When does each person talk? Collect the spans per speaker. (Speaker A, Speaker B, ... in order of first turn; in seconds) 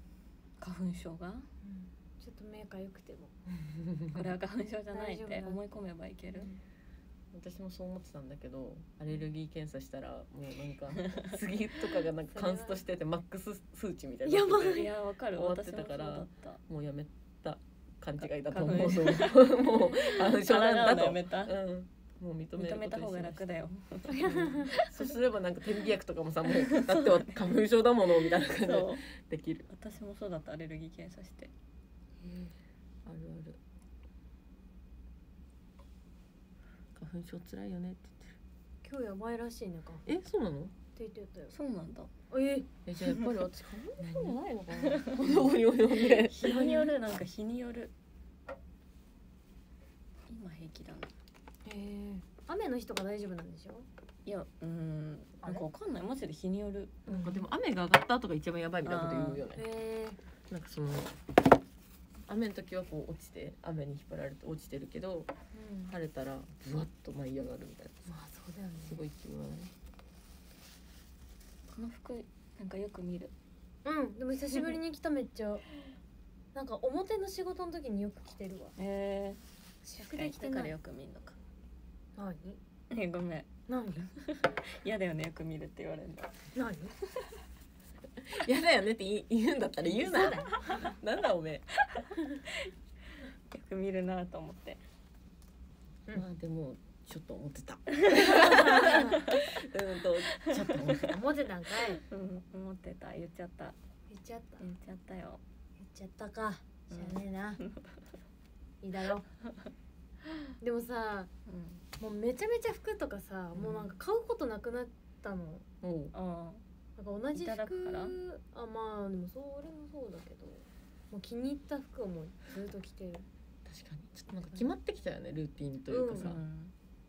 Speaker A: 0.6-1.5, 4.1-6.5, 14.6-16.6, 18.4-21.5, 22.6-24.2, 26.5-27.4, 28.3-29.0, 29.7-31.5, 41.5-42.1, 44.0-45.3, 45.9-47.9, 50.3-51.1, 54.2-57.0, 58.8-59.4, 71.7-73.3, 78.8-79.4, 80.0-81.4, 82.9-83.5, 84.2-86.3, 91.9-92.7, 93.5-94.8, 98.0-99.4, 100.4-101.0, 102.0-103.8, 104.6-105.4, 106.9-108.1, 111.5-111.8, 116.1-116.6, 117.3-118.2, 126.2-126.7
Speaker B: 1.6-3.4, 4.9-5.6, 6.3-6.6, 12.3-12.8, 14.2-14.9, 24.1-24.7, 32.2-32.5, 38.8-40.0, 40.9-41.5, 42.3-42.7, 46.4-46.9, 51.6-53.9, 55.4-55.7, 57.1-57.5, 59.5-60.2, 65.5-65.9, 68.0-69.0, 73.8-75.6, 76.5-78.7, 79.8-80.7, 82.2-82.6, 83.7-84.1, 86.5-86.9, 89.8-91.0, 98.2-99.2, 101.0-102.0, 104.1-104.6, 105.8-107.6, 108.8-109.2, 110.6-111.3, 112.0-115.7, 117.0-123.3, 125.9-126.3
Speaker C: 3.6-4.3, 7.3-23.5, 24.2-29.7, 33.0-33.6, 36.9-38.4, 40.0-40.7, 42.9-46.4, 57.1-59.6, 60.5-61.2, 62.3-65.3, 65.9-68.1, 68.8-69.7, 88.2-91.7, 96.1-101.2, 113.5-113.9, 115.8-116.1, 123.6-126.4